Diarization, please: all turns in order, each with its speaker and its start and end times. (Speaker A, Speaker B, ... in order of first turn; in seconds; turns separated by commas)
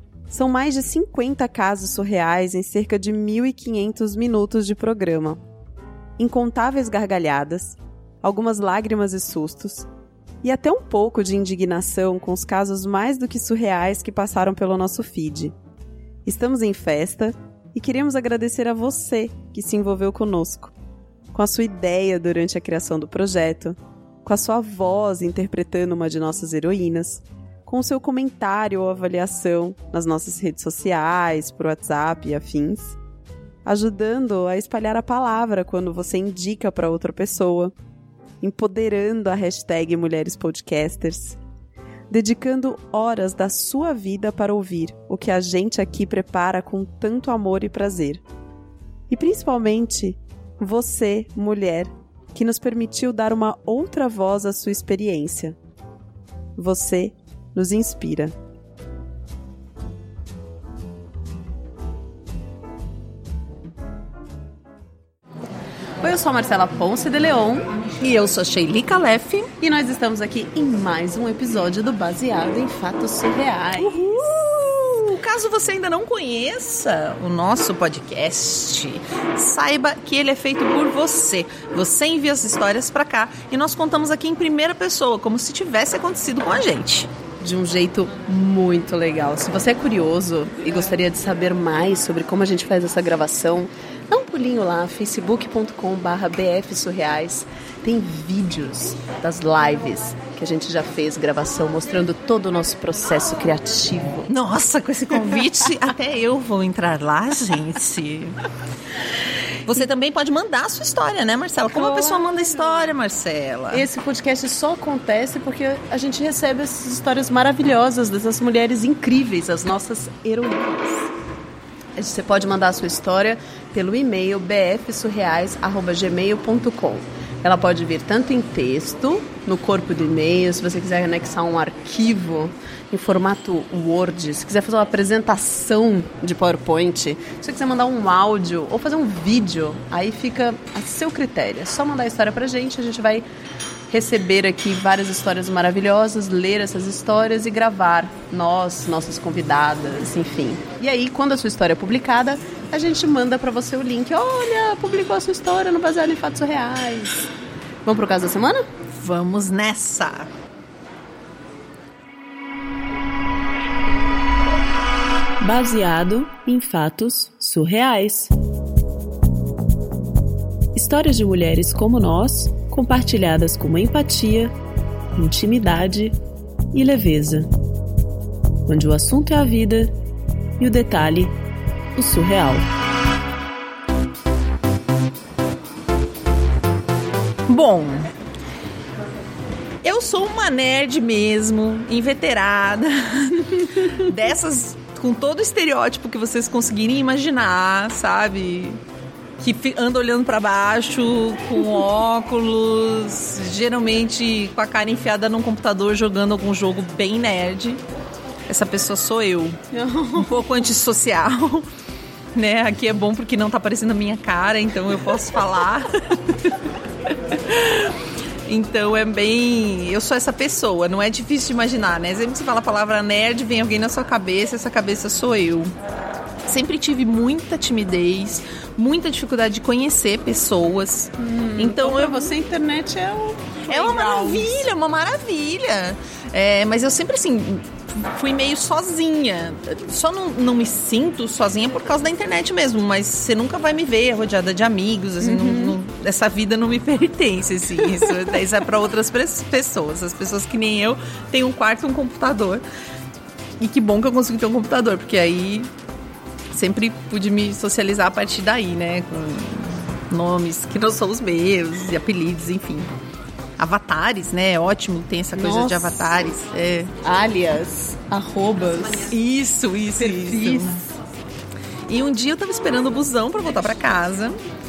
Speaker A: 0.3-5.4, Speaker A: 6.2-9.9, Speaker A: 10.4-15.5, Speaker A: 16.2-20.7, Speaker A: 21.3-33.0, Speaker A: 33.6-37.7, Speaker A: 38.4-41.4, Speaker A: 42.1-48.2, Speaker A: 49.1-55.6, Speaker A: 56.6-58.3, Speaker A: 66.0-67.7, Speaker B: 68.0-69.5, Speaker A: 69.6-74.2, Speaker B: 73.8-87.1, Speaker A: 87.4-104.3, Speaker B: 104.3-108.3, Speaker B: 109.6-113.9, Speaker A: 111.7-112.9, Speaker A: 113.7-121.1, Speaker A: 122.0-143.2, Speaker A: 143.9-157.3, Speaker A: 157.8-158.6, Speaker B: 158.9-160.3, Speaker A: 165.4-168.3, Speaker A: 170.7-174.5, Speaker A: 175.2-176.2, Speaker A: 176.7-177.5, Speaker A: 178.7-179.9, Speaker A: 180.6-181.3, Speaker A: 181.9-182.7, Speaker B: 187.5-188.1, Speaker B: 189.8-198.8, Speaker B: 199.4-207.8, Speaker B: 208.5-209.6, Speaker A: 209.7-210.6, Speaker B: 210.2-211.6, Speaker B: 212.3-216.6, Speaker B: 217.3-217.9, Speaker B: 218.5-225.7, Speaker B: 226.4-232.3, Speaker A: 231.2-234.6, Speaker B: 233.7-252.6, Speaker A: 245.2-245.8, Speaker B: 253.6-255.7, Speaker B: 256.5-262.9, Speaker B: 263.6-266.9, Speaker A: 265.3-266.3, Speaker A: 267.0-269.1, Speaker B: 269.1-270.8, Speaker A: 269.9-270.8, Speaker B: 271.9-274.4